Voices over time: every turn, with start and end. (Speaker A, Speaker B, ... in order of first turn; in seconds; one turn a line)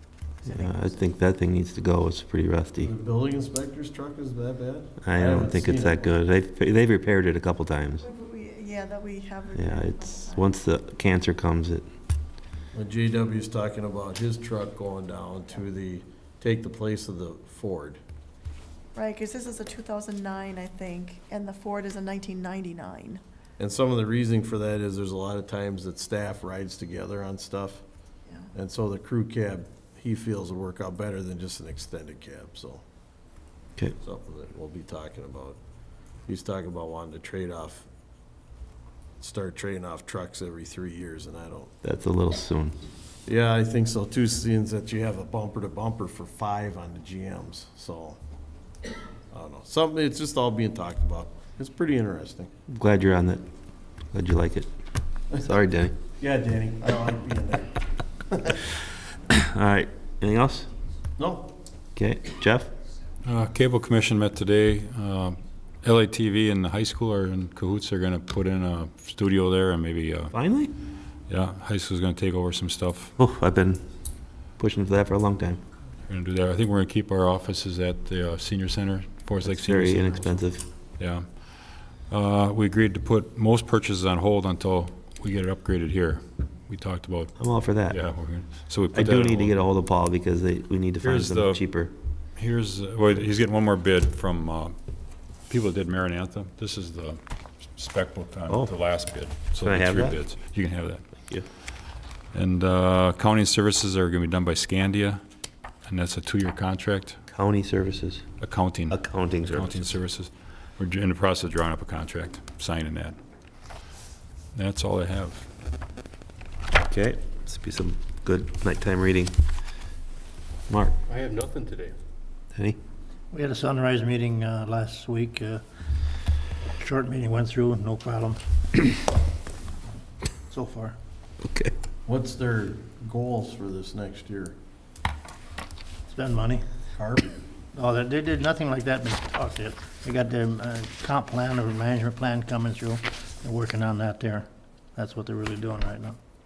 Speaker A: 0.4-0.9
Speaker B: 0.5-2.9
Speaker C: 2.8-6.2
Speaker B: 5.0-8.0
Speaker A: 8.0-10.5
Speaker B: 9.5-11.8
Speaker C: 12.7-18.0
Speaker A: 18.9-23.2
Speaker C: 23.6-27.8
Speaker C: 28.5-32.8
Speaker C: 34.0-35.6
Speaker C: 36.3-37.9
Speaker C: 39.2-41.7
Speaker B: 41.8-42.8
Speaker C: 43.2-48.2
Speaker C: 49.3-52.5
Speaker B: 52.7-53.4
Speaker B: 54.1-54.7
Speaker B: 55.4-56.0
Speaker C: 56.2-57.8
Speaker C: 58.3-58.6
Speaker B: 59.3-60.7
Speaker C: 61.2-61.5
Speaker B: 62.0-62.7
Speaker D: 63.2-70.3
Speaker B: 70.3-70.7
Speaker D: 71.3-73.1
Speaker B: 73.2-73.8
Speaker B: 74.6-75.6
Speaker D: 76.1-80.3
Speaker B: 79.4-80.6
Speaker D: 81.0-81.3
Speaker D: 82.1-87.3
Speaker B: 87.4-88.0
Speaker D: 87.9-89.5
Speaker B: 88.9-91.9
Speaker D: 91.0-91.6
Speaker D: 92.4-94.7
Speaker D: 95.5-101.0
Speaker B: 99.6-100.2
Speaker D: 102.3-105.2
Speaker D: 105.8-107.2
Speaker B: 107.3-108.2
Speaker D: 108.4-113.2
Speaker B: 108.9-109.8
Speaker D: 114.5-115.5
Speaker B: 116.8-119.3
Speaker B: 120.7-121.0
Speaker D: 121.1-121.9
Speaker E: 123.3-125.6
Speaker E: 126.8-128.9
Speaker E: 130.5-131.0
Speaker B: 131.4-131.7
Speaker C: 132.1-134.6
Speaker E: 136.1-136.6
Speaker C: 136.9-137.4
Speaker E: 137.7-146.2